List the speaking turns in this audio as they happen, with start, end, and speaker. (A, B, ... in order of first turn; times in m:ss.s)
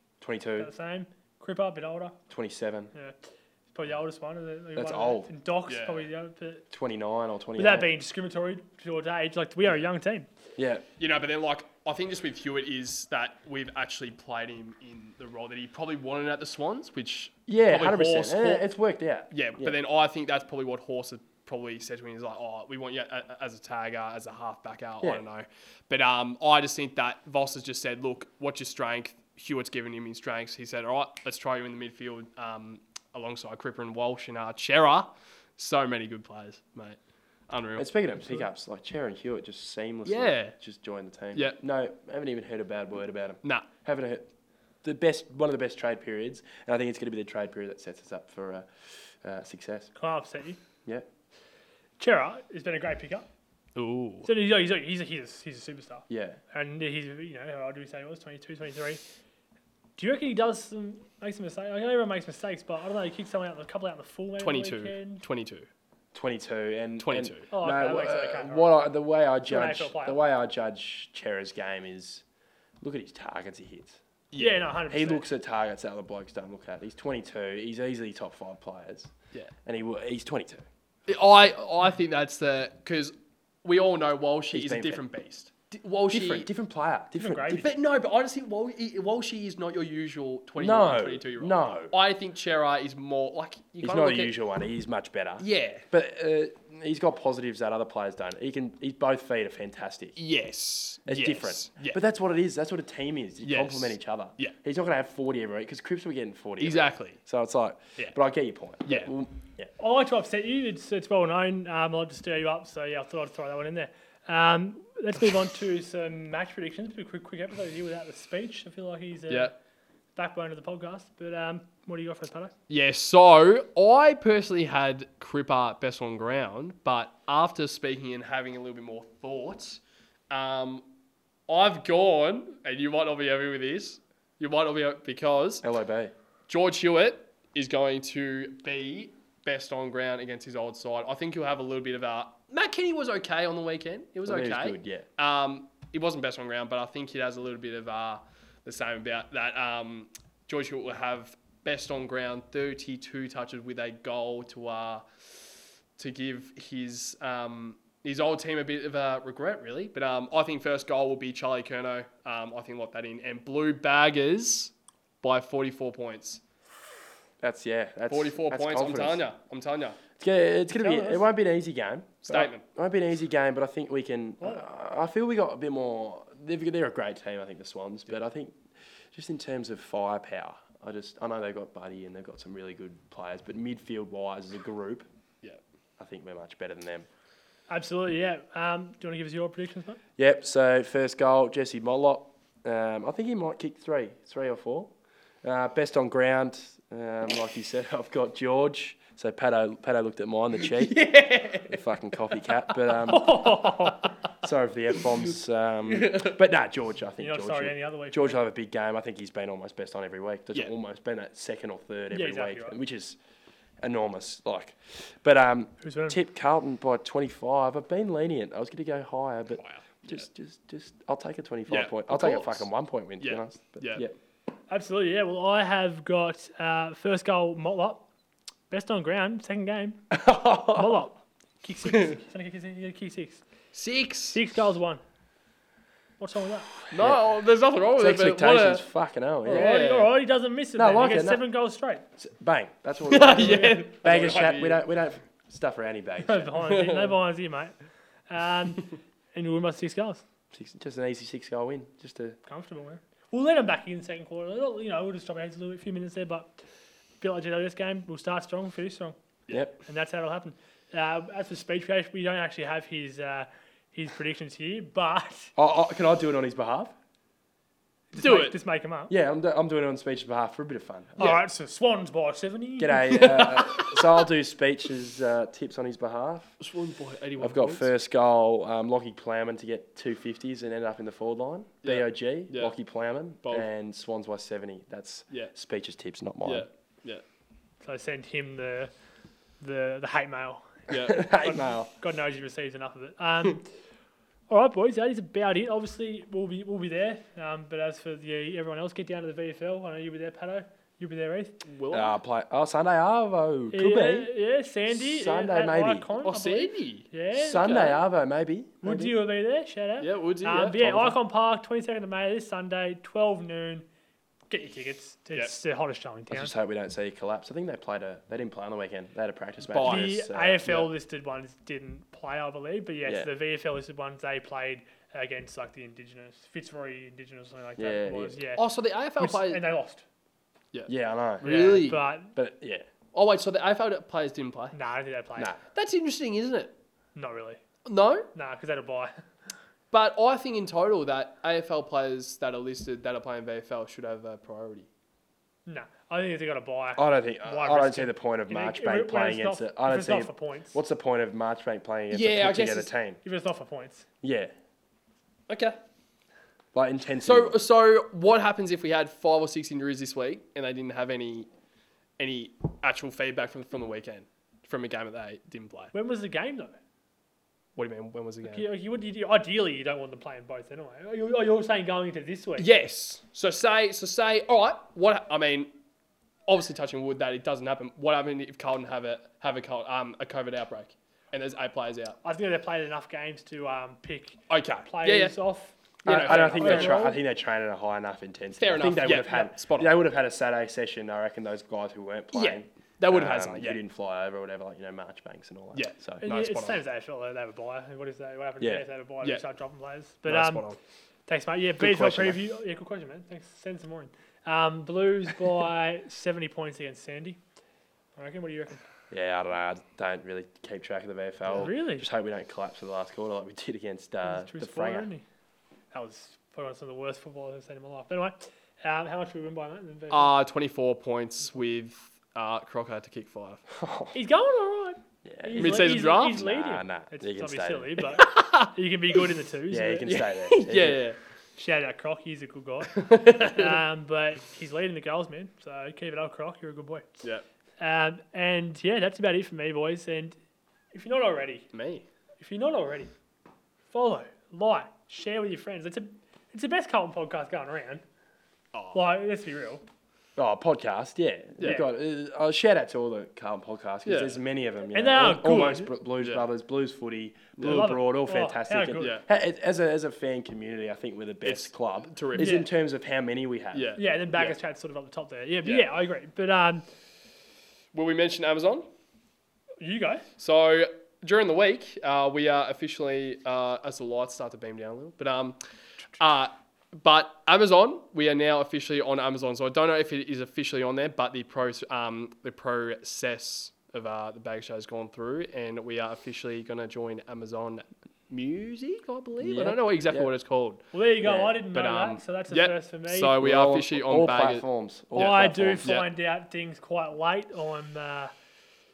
0:00.2-0:00.7 A
0:00.6-0:02.2 B
0:02.3-0:02.9 A
0:03.7-0:06.6 B
0:04.8-0:05.3 A
0:05.7-0:06.1 C
0:06.7-0:07.9 A
0:07.6-0:10.3 B
0:10.6-0:10.8 A
0:11.0-0:18.6 C
0:17.5-0:19.8 A
0:19.3-0:38.4 C
0:37.8-0:44.3 A
0:40.0-0:40.6 C
0:44.8-0:49.9 A
0:49.9-0:50.6 B
0:52.0-0:53.3 B
0:53.8-0:54.3 C
0:54.2-0:59.0 B
0:56.1-0:56.4 A
1:00.0-1:05.2 B
1:04.4-1:05.7 C
1:06.1-1:12.2 A
1:07.0-1:07.5 C
1:07.5-1:08.8 B
1:09.5-1:10.2 B
1:12.8-1:14.0 A
1:14.3-1:14.7 C
1:14.4-1:15.2 B
1:14.9-1:19.1 A
1:19.6-1:20.6 A
1:21.1-1:23.1 C
1:23.6-1:26.5 C
1:24.5-1:25.0 A
1:26.1-1:27.7 A
1:27.2-1:27.7 B
1:27.5-1:34.4 C
1:30.6-1:31.9 A
1:33.8-1:40.2 A
1:35.4-1:35.8 C
1:40.2-1:42.0 C
1:41.0-1:49.7 A
1:43.4-1:44.6 C
1:46.6-1:47.2 C
1:48.9-1:49.1 C
1:49.8-1:59.5 B
2:00.2-2:02.5 B
2:02.7-2:10.9 C
2:11.5-2:15.6 C
2:15.6-2:16.1 A
2:16.5-2:35.3 C
2:24.2-2:25.0 A
2:36.0-2:46.4 C
2:47.4-2:49.2 A
2:48.1-2:50.0 C
2:50.2-2:58.6 A
2:50.8-2:51.2 B
2:52.2-2:52.6 C
2:59.1-3:05.0 A
3:06.0-3:07.1 A
3:07.7-3:10.0 B
3:10.2-3:14.9 A
3:15.4-3:23.6 A
3:20.7-3:21.8 C
3:23.1-3:24.1 B
3:24.4-3:33.2 A
3:25.9-3:26.4 C
3:27.2-3:28.4 B
3:32.1-3:32.8 B
3:33.8-3:44.1 A
3:35.8-3:36.2 B
3:39.5-3:40.2 C
3:41.7-3:42.7 C
3:43.2-3:44.0 C
3:44.7-3:48.1 B
3:48.7-3:53.4 B
3:50.1-3:51.1 A
3:53.7-3:54.4 C
3:54.3-3:55.0 B
3:56.2-3:56.7 B
3:56.9-3:58.8 C
3:56.9-3:57.3 A
3:58.0-3:59.8 A
3:59.4-4:02.1 B
3:59.5-4:00.2 C
4:00.7-4:01.4 A
4:02.2-4:06.7 A
4:03.1-4:04.8 C
4:03.3-4:03.9 B
4:06.2-4:07.7 B
4:06.7-4:07.1 C
4:08.3-4:10.2 B
4:10.5-4:12.4 A
4:12.4-4:16.6 B
4:17.2-4:19.2 B
4:19.9-4:25.5 B
4:25.6-4:26.9 A
4:28.1-4:29.1 B
4:28.2-4:28.6 C
4:29.1-4:31.3 A
4:31.2-4:33.4 B
4:32.8-4:36.6 A
4:33.1-4:34.1 C
4:36.6-4:37.9 C
4:37.4-4:46.7 A
4:41.8-4:42.7 C
4:46.4-4:47.2 C
4:47.8-4:48.9 B
4:49.6-4:50.9 B
4:50.9-4:51.2 C
4:50.9-4:51.9 A
4:51.4-4:53.7 B
4:54.5-5:01.6 B
5:01.6-5:02.2 C
5:01.9-5:04.3 A
5:03.7-5:08.0 B
5:04.9-5:06.1 A
5:06.2-5:07.1 C
5:07.4-5:09.2 A
5:07.6-5:07.9 C
5:08.8-5:13.9 B
5:10.0-5:11.0 C
5:10.8-5:11.1 A
5:14.5-5:16.5 B
5:16.3-5:20.6 A
5:19.6-5:20.9 C
5:19.8-5:28.6 B
5:23.0-5:23.3 A
5:27.8-5:28.4 A
5:28.6-5:29.6 C
5:29.2-5:30.0 B
5:30.7-5:32.0 C
5:30.9-5:32.8 A
5:31.4-5:32.3 B
5:33.1-5:34.7 C
5:34.7-5:35.5 B
5:35.7-5:36.7 C
5:37.1-5:37.6 B
5:37.9-5:38.3 C
5:38.3-5:39.1 B
5:39.9-5:44.9 C
5:45.6-5:50.8 B
5:47.0-5:53.2 A
5:52.1-5:52.9 C
5:53.2-5:54.1 B
5:54.2-5:54.5 A
5:55.5-5:55.8 C
5:56.7-5:57.6 A
5:57.2-6:01.5 C
6:02.2-6:05.9 C
6:05.9-6:06.8 B
6:07.8-6:08.6 C
6:08.4-6:12.7 B
6:12.6-6:15.7 C
6:16.5-6:22.2 C
6:22.2-6:27.2 B
6:24.5-6:25.4 C
6:26.0-6:27.1 C
6:26.0-6:36.2 A
6:28.6-6:30.0 C
6:32.3-6:33.8 C
6:35.7-6:36.8 C
6:36.2-6:40.7 B
6:38.6-6:38.8 A
6:40.2-6:40.8 C
6:41.3-6:47.4 B
6:41.8-6:42.4 A
6:48.2-6:48.8 B
6:49.1-6:55.1 A
6:51.5-6:52.1 B
6:54.2-6:55.2 B
6:55.9-7:00.3 B
7:00.1-7:03.6 C
7:03.7-7:04.1 A
7:04.1-7:10.1 B
7:05.2-7:08.0 A
7:05.6-7:06.4 C
7:08.1-7:08.7 C
7:09.7-7:11.0 A
7:10.1-7:11.2 C
7:11.6-7:17.2 B
7:12.9-7:13.8 C
7:17.8-7:20.4 B
7:20.9-7:21.7 B
7:21.7-7:22.1 C
7:22.4-7:23.1 B
7:23.9-7:28.0 B
7:28.7-7:29.0 C
7:28.9-7:29.8 B
7:30.4-7:43.9 A
7:31.6-7:31.8 C
7:34.1-7:34.4 C
7:34.9-7:35.9 B
7:36.2-7:36.5 C
7:37.6-7:37.9 C
7:37.6-7:39.2 B
7:39.0-7:39.2 C
7:41.4-7:42.6 C
7:42.4-7:42.7 B
7:43.7-7:44.6 C
7:44.0-7:46.9 B
7:45.6-7:45.9 C
7:47.9-7:48.9 C
7:49.8-7:50.3 B
7:50.4-7:55.6 C
7:56.2-8:10.8 C
8:09.4-8:10.3 A
8:10.9-8:13.4 B
8:11.2-8:11.6 A
8:11.7-8:16.1 C
8:13.4-8:15.9 A
8:15.1-8:18.3 B